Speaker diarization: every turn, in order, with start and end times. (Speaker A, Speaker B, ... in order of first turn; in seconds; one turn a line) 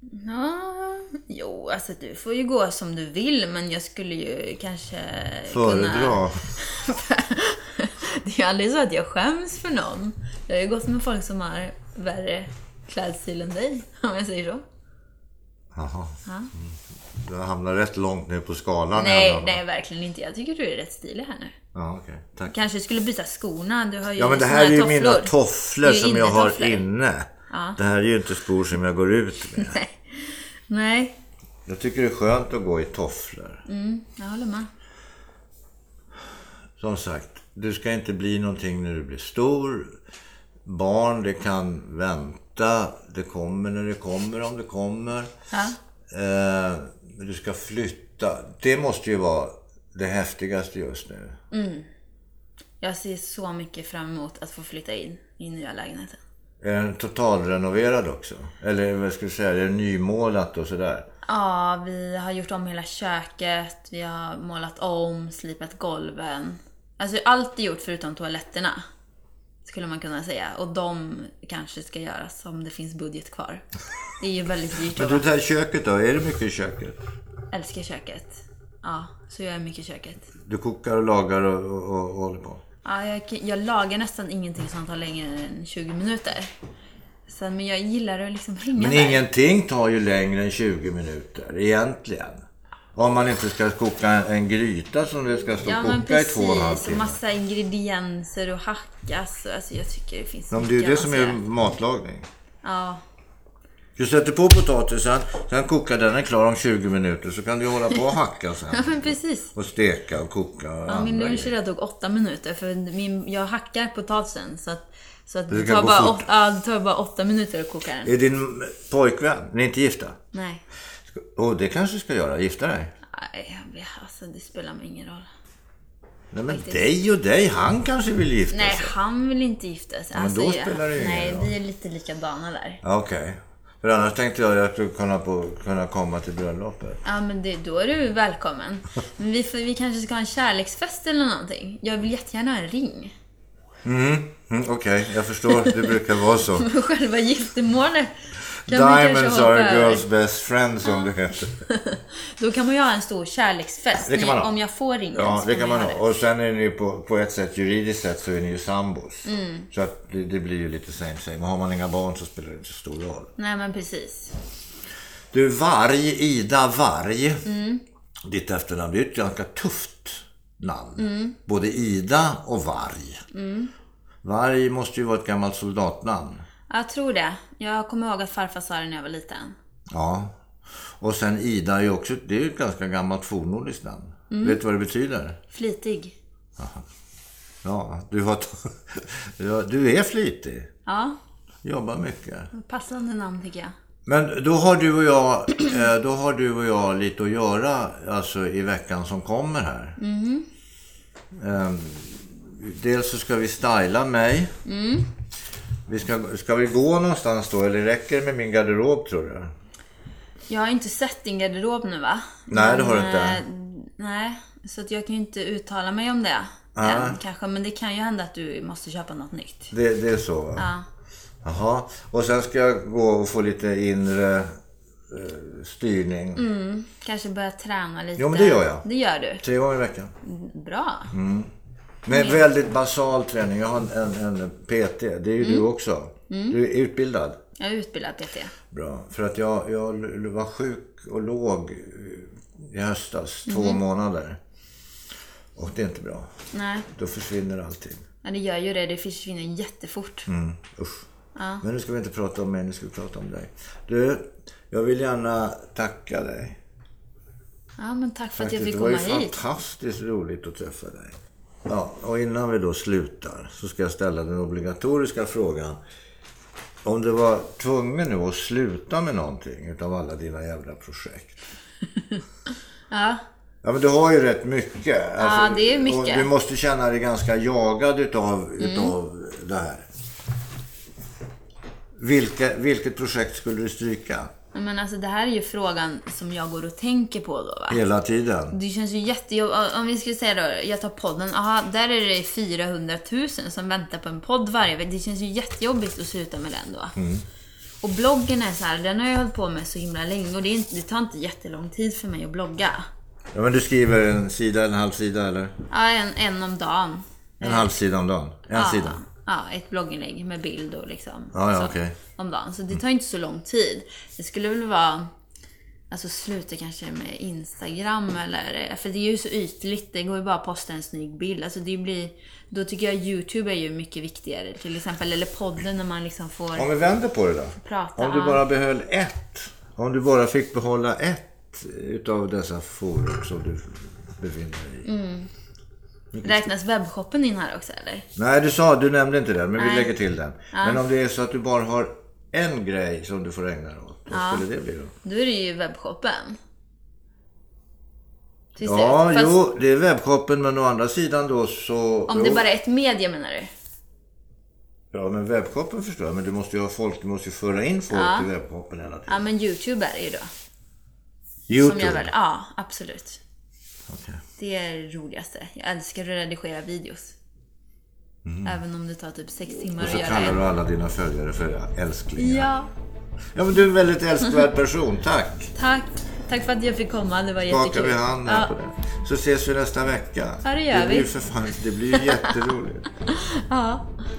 Speaker A: 0.1-14.6
Speaker B: 5.5-6.4
Speaker B: 15.7-19.6
Speaker A: 16.3-16.5
Speaker A: 18.9-21.5
Speaker B: 21.7-22.6
Speaker A: 22.5-26.8
Speaker B: 24.2-29.8
Speaker A: 27.5-27.8
Speaker A: 29.6-31.1
Speaker B: 31.7-33.6
Speaker A: 33.7-34.7
Speaker B: 36.8-40.0
Speaker B: 40.6-45.3
Speaker A: 45.5-45.8
Speaker B: 46.1-51.4
Speaker A: 51.5-51.9
Speaker A: 52.8-56.2
Speaker B: 56.6-61.1
Speaker A: 61.3-68.8
Speaker A: 69.6-73.6
Speaker A: 74.2-75.3
Speaker B: 75.0-77.0
Speaker A: 77.5-80.3
Speaker B: 80.5-82.6
Speaker A: 82.8-86.5
Speaker A: 87.3-89.2
Speaker B: 88.8-92.4
Speaker B: 93.0-97.2
Speaker A: 95.6-101.4
Speaker B: 100.5-102.3
Speaker A: 102.6-103.0
Speaker B: 104.0-111.5
Speaker A: 108.7-109.5
Speaker A: 110.9-118.1
Speaker B: 115.5-116.3
Speaker B: 118.0-120.2
Speaker A: 120.3-120.6
Speaker B: 121.1-122.9
Speaker A: 123.1-125.3
Speaker B: 126.3-128.9
Speaker A: 126.5-126.8
Speaker A: 128.5-132.8
Speaker B: 130.1-131.5
Speaker B: 132.8-137.0
Speaker A: 137.1-143.1
Speaker B: 143.8-146.7
Speaker A: 145.5-146.0
Speaker A: 146.5-148.1
Speaker A: 148.7-150.1
Speaker B: 148.7-151.5
Speaker A: 150.8-156.1
Speaker B: 154.0-154.5
Speaker B: 155.1-163.3
Speaker A: 159.3-159.7
Speaker A: 163.4-164.3
Speaker B: 165.3-167.4
Speaker A: 167.4-167.8
Speaker B: 168.3-173.2
Speaker A: 171.0-171.4
Speaker A: 173.3-173.7
Speaker B: 174.2-176.4
Speaker A: 176.7-179.6
Speaker B: 179.9-180.3
Speaker B: 181.0-185.4
Speaker A: 184.3-184.6
Speaker A: 185.5-186.2
Speaker B: 186.6-186.8
Speaker B: 187.6-190.7
Speaker A: 190.9-191.2
Speaker B: 191.6-192.5
Speaker A: 192.5-193.7
Speaker B: 194.1-200.0
Speaker A: 200.0-200.5
Speaker B: 201.3-204.5
Speaker A: 204.7-205.1
Speaker B: 205.9-209.5
Speaker A: 210.5-219.7
Speaker B: 212.5-213.4
Speaker B: 216.8-217.2
Speaker B: 219.7-220.7
Speaker A: 220.6-220.8
Speaker B: 221.4-224.5
Speaker B: 225.1-226.4
Speaker A: 226.4-229.4
Speaker B: 228.2-228.8
Speaker B: 229.4-230.1
Speaker A: 230.2-231.1
Speaker B: 231.1-231.5
Speaker B: 232.1-237.4
Speaker A: 232.1-232.4
Speaker A: 235.4-235.7
Speaker A: 236.3-236.6
Speaker A: 237.6-238.5
Speaker B: 238.7-244.4
Speaker A: 243.5-243.8
Speaker B: 245.6-246.3
Speaker A: 246.5-246.9
Speaker B: 246.9-248.0
Speaker A: 248.2-250.3
Speaker B: 250.3-251.1
Speaker A: 251.3-251.6
Speaker B: 251.6-256.6
Speaker A: 257.8-259.4
Speaker B: 258.4-265.8
Speaker B: 266.8-271.4
Speaker A: 272.9-273.2
Speaker B: 273.6-279.9
Speaker A: 275.2-276.3
Speaker A: 278.6-278.9
Speaker B: 282.0-284.3
Speaker A: 284.5-287.8
Speaker B: 287.7-288.6
Speaker A: 288.5-297.0
Speaker B: 296.9-297.2
Speaker A: 297.8-302.9
Speaker B: 303.3-305.6
Speaker A: 305.7-307.7
Speaker B: 307.4-309.0
Speaker A: 308.5-315.1
Speaker B: 311.3-312.0
Speaker A: 315.9-326.7
Speaker B: 326.6-334.9
Speaker A: 327.6-328.4
Speaker A: 334.9-335.3
Speaker B: 336.1-336.5
Speaker A: 336.2-338.1
Speaker B: 338.2-344.9
Speaker A: 339.6-339.9
Speaker A: 340.5-340.8
Speaker A: 344.1-344.4
Speaker A: 345.0-346.4
Speaker A: 348.6-349.4
Speaker B: 348.6-352.5
Speaker A: 352.1-353.5
Speaker B: 354.9-359.2
Speaker A: 357.9-358.3
Speaker A: 359.1-360.3
Speaker B: 361.5-362.1
Speaker A: 361.6-363.2
Speaker B: 363.9-364.2
Speaker A: 364.4-367.2
Speaker B: 368.2-368.6
Speaker A: 368.4-370.4
Speaker B: 369.8-372.5
Speaker A: 372.2-372.7
Speaker B: 373.4-375.5
Speaker A: 375.6-378.5
Speaker B: 377.5-382.9
Speaker A: 380.4-381.1
Speaker A: 381.9-382.4
Speaker A: 383.1-383.9